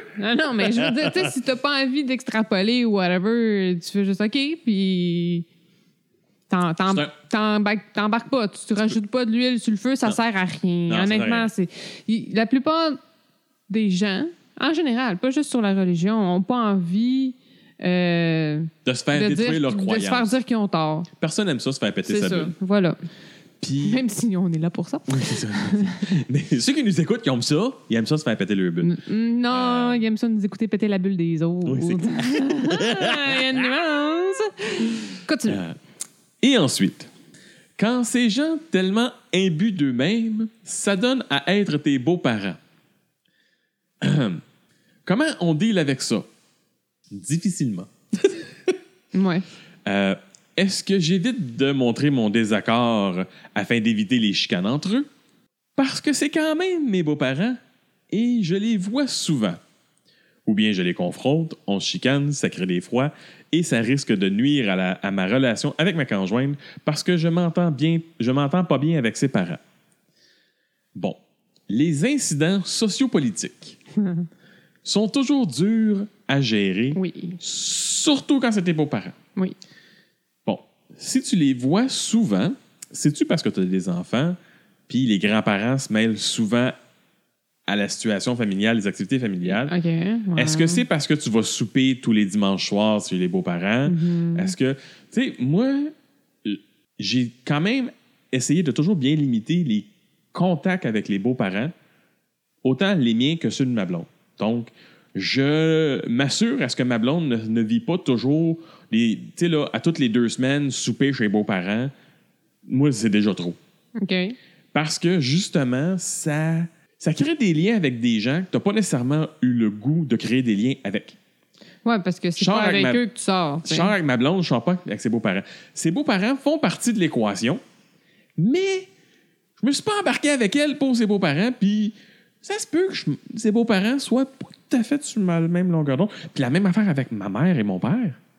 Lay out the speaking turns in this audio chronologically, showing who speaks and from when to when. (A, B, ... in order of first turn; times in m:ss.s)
0:00.2-0:05.4 A
0:00.6-0:01.3 B
0:06.5-0:13.0 A
0:10.9-0:11.5 B
0:13.7-0:21.1 A
0:18.8-0:20.3 B
0:21.2-0:22.5 B
0:22.1-0:23.0 A
0:23.6-0:24.0 B
0:23.8-0:26.0 A
0:25.1-0:28.9 B
0:28.8-0:35.6 A
0:29.5-0:30.1 B
0:31.6-0:33.7 B
0:35.5-0:35.8 B
0:36.4-0:37.1 B
0:37.8-0:42.6 B
0:44.0-0:44.4 B
0:45.1-0:46.3 B
0:47.1-0:48.7 B
0:49.1-0:49.4 A
0:49.9-0:55.1 B
0:55.8-0:57.6 B
0:58.1-0:59.6 B
1:00.4-1:09.6 B
1:11.0-1:13.8 B
1:14.0-1:14.2 A
1:14.8-1:19.2 B
1:16.9-1:17.4 A
1:20.5-1:24.4 B
1:24.9-1:26.7 B
1:27.7-1:29.7 B
1:29.4-1:30.8 A
1:30.4-1:35.9 B
1:33.9-1:34.5 A
1:36.4-1:41.7 B
1:42.6-1:51.9 B
1:52.6-1:53.6 B
1:54.0-1:54.4 A
1:54.7-2:01.2 B
2:01.8-2:03.9 A
2:02.4-2:03.0 B
2:03.6-2:07.6 B
2:08.4-2:08.9 B
2:09.6-2:18.2 B